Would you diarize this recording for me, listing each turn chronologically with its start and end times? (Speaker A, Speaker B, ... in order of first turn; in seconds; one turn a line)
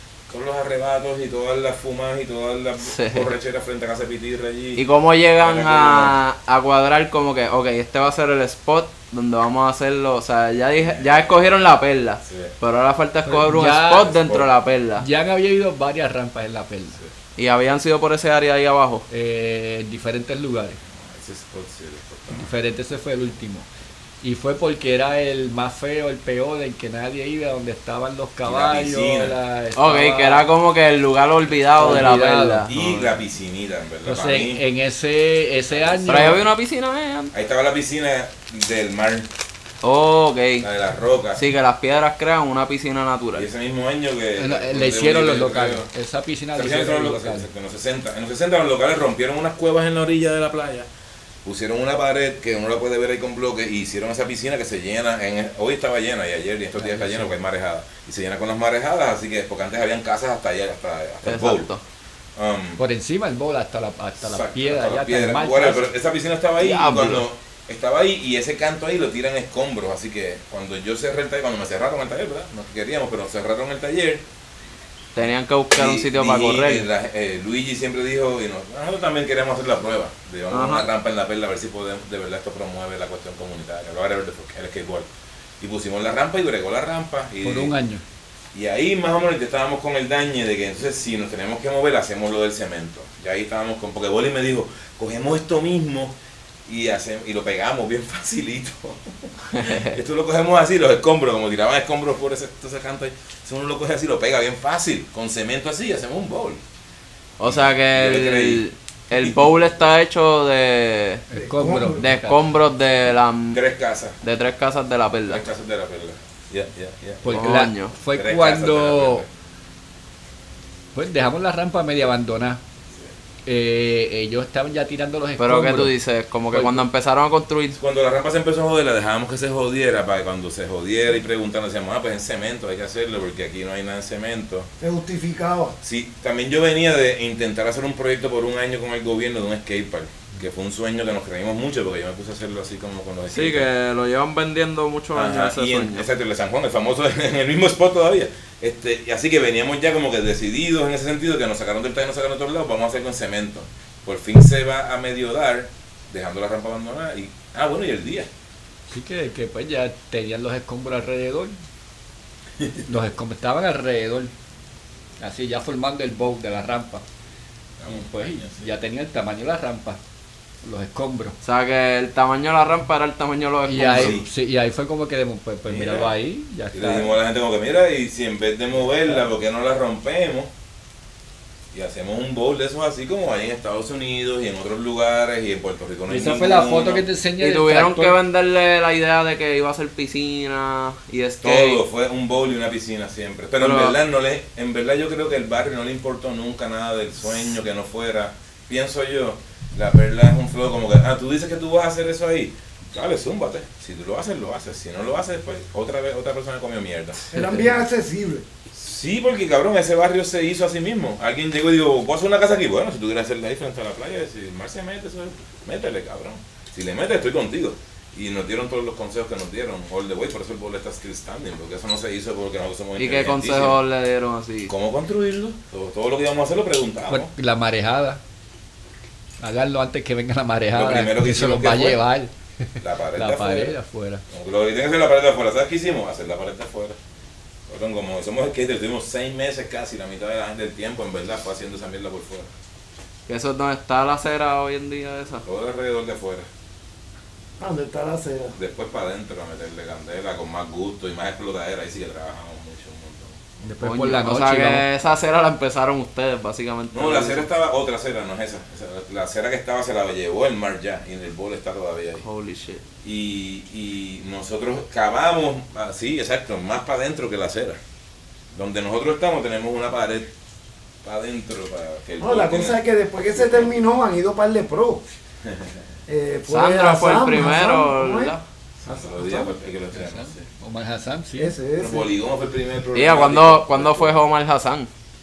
Speaker A: 0.3-4.8
Speaker B: 2.9-3.3
Speaker B: 4.8-15.1
Speaker A: 5.4-6.2
Speaker A: 10.8-11.6
Speaker A: 12.2-12.5
Speaker C: 13.3-14.2
Speaker A: 14.1-14.5
Speaker C: 15.0-17.0
Speaker B: 17.4-19.1
Speaker C: 19.1-20.8
Speaker A: 20.9-22.5
Speaker C: 22.3-23.7
Speaker C: 24.2-30.5
Speaker A: 28.4-29.4
Speaker B: 29.8-33.1
Speaker C: 31.8-32.7
Speaker A: 32.7-34.6
Speaker C: 34.0-36.4
Speaker A: 35.7-36.5
Speaker B: 36.1-37.3
Speaker A: 37.3-39.3
Speaker B: 39.8-40.7
Speaker A: 40.6-41.5
Speaker B: 41.4-43.5
Speaker A: 43.3-45.9
Speaker C: 44.4-47.5
Speaker A: 46.5-50.9
Speaker A: 51.5-61.7
Speaker C: 56.8-57.3
Speaker B: 61.2-61.8
Speaker A: 62.4-62.8
Speaker C: 62.8-65.9
Speaker A: 64.2-74.2
Speaker B: 66.6-67.2
Speaker B: 75.2-76.9
Speaker A: 75.7-85.1
Speaker B: 80.5-80.9
Speaker A: 85.6-87.7
Speaker C: 87.4-88.0
Speaker A: 88.5-106.6
Speaker B: 99.5-100.0
Speaker B: 107.4-111.2
Speaker A: 107.4-109.8
Speaker C: 111.3-112.4
Speaker D: 111.4-112.1
Speaker B: 112.0-113.6
Speaker A: 113.5-114.2
Speaker B: 114.2-115.5
Speaker A: 115.3-117.5
Speaker C: 117.2-119.2
Speaker B: 117.3-118.0
Speaker A: 118.2-119.3
Speaker C: 121.0-122.6
Speaker C: 123.5-125.9
Speaker B: 125.4-127.8
Speaker C: 126.5-126.8
Speaker A: 127.8-134.7
Speaker D: 134.8-135.8
Speaker A: 135.8-143.7
Speaker B: 143.3-146.1
Speaker A: 145.1-158.3
Speaker C: 158.9-161.5
Speaker C: 162.9-164.3
Speaker C: 165.2-167.0
Speaker A: 167.8-168.7
Speaker C: 167.8-170.0
Speaker C: 170.6-171.4
Speaker B: 171.4-174.2
Speaker C: 173.7-177.2
Speaker A: 173.9-174.3
Speaker A: 175.7-176.2
Speaker A: 176.7-180.5
Speaker A: 181.7-187.1
Speaker C: 186.1-188.2
Speaker B: 187.4-191.8
Speaker A: 191.4-207.2
Speaker B: 193.6-194.0
Speaker D: 207.3-208.4
Speaker A: 208.7-223.8
Speaker B: 223.0-224.7
Speaker A: 224.7-227.3
Speaker C: 227.1-228.2
Speaker C: 229.4-232.3
Speaker A: 230.7-232.0
Speaker A: 232.8-233.8
Speaker C: 233.2-234.2
Speaker A: 234.3-237.0
Speaker A: 237.7-242.5
Speaker B: 243.3-245.5
Speaker A: 245.5-246.5
Speaker D: 247.6-248.6
Speaker A: 248.6-253.7
Speaker C: 253.7-254.8
Speaker B: 253.8-257.5
Speaker A: 256.9-262.2
Speaker B: 262.2-262.8
Speaker A: 263.0-267.8
Speaker A: 268.5-270.3
Speaker A: 271.0-273.9
Speaker D: 272.2-275.1
Speaker A: 275.4-275.8
Speaker D: 276.1-278.3
Speaker B: 276.5-278.4
Speaker A: 278.8-280.4
Speaker D: 278.9-279.5
Speaker C: 279.9-281.6
Speaker D: 281.4-282.1
Speaker A: 281.8-284.2
Speaker B: 282.9-284.9